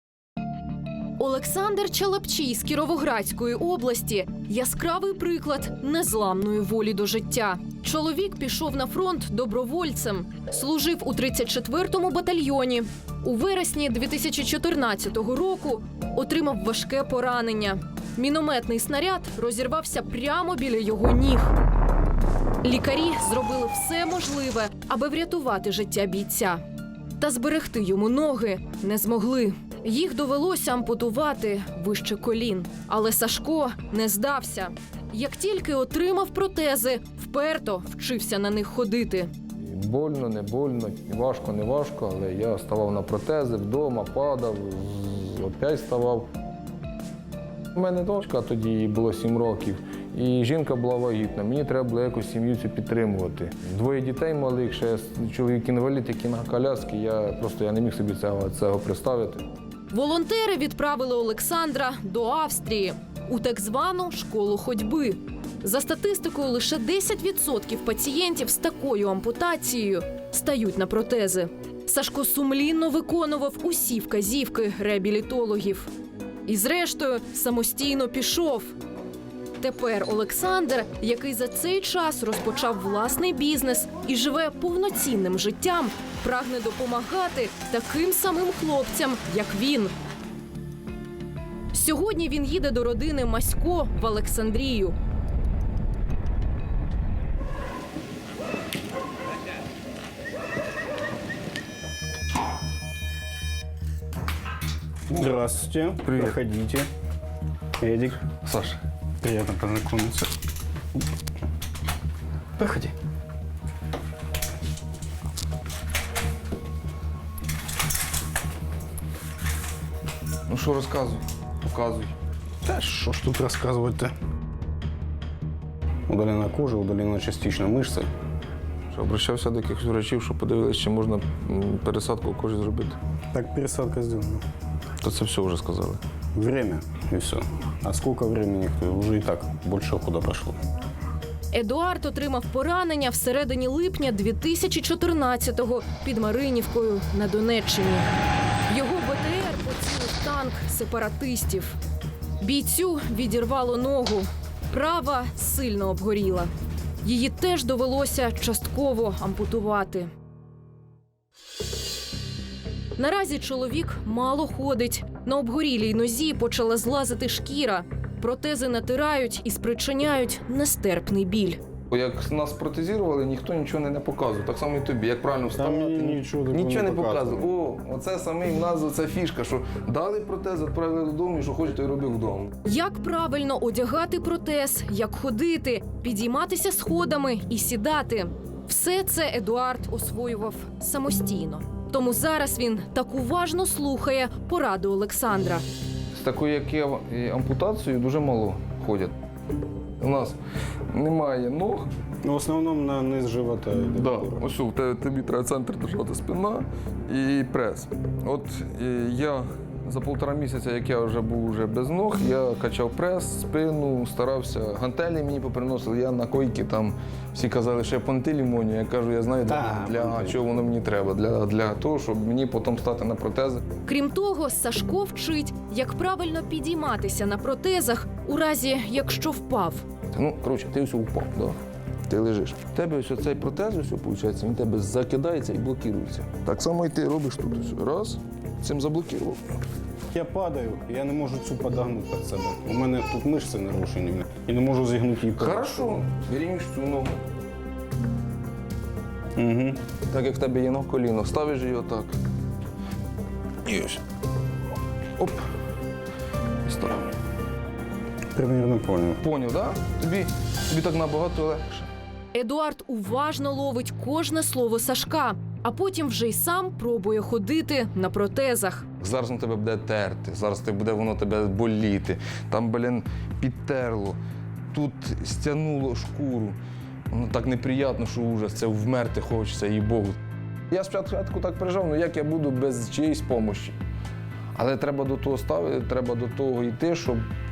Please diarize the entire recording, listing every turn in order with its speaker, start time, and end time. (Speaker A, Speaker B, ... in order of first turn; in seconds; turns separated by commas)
Speaker A: 1.2-21.5, Speaker A: 22.6-26.6, Speaker A: 27.2-39.3, Speaker B: 39.6-46.3, Speaker B: 47.7-59.4, Speaker A: 59.9-75.9, Speaker A: 76.5-78.7, Speaker A: 79.6-89.9, Speaker A: 91.7-95.0, Speaker C: 105.1-106.9, Speaker B: 106.0-106.4, Speaker C: 107.8-108.2, Speaker B: 108.3-108.8, Speaker C: 109.2-110.3, Speaker C: 112.6-112.9, Speaker B: 120.5-122.1, Speaker C: 122.6-124.1, Speaker C: 126.1-128.1, Speaker B: 128.9-133.0, Speaker C: 133.3-134.4, Speaker B: 135.0-136.0, Speaker C: 136.3-140.6, Speaker A: 141.5-148.1, Speaker A: 148.7-151.8, Speaker A: 152.4-156.5, Speaker A: 157.0-160.1, Speaker A: 162.9-171.6, Speaker B: 171.9-182.5, Speaker C: 175.5-177.5, Speaker A: 182.6-195.6, Speaker B: 196.1-199.1, Speaker B: 200.0-200.4, Speaker B: 200.9-201.9, Speaker C: 202.2-204.4, Speaker B: 204.0-223.6, Speaker C: 219.5-220.4, Speaker A: 223.8-229.8, Speaker B: 230.1-231.6, Speaker B: 232.1-239.4, Speaker C: 240.1-245.9, Speaker B: 245.3-247.2, Speaker C: 249.3-249.8, Speaker B: 250.1-252.2, Speaker B: 253.6-254.0, Speaker B: 255.2-255.4, Speaker B: 256.6-257.1, Speaker C: 258.4-259.2, Speaker B: 259.2-261.9, Speaker A: 262.3-268.9, Speaker B: 269.0-274.2, Speaker B: 274.7-276.6, Speaker B: 277.1-280.2, Speaker B: 280.7-283.8, Speaker B: 284.5-287.2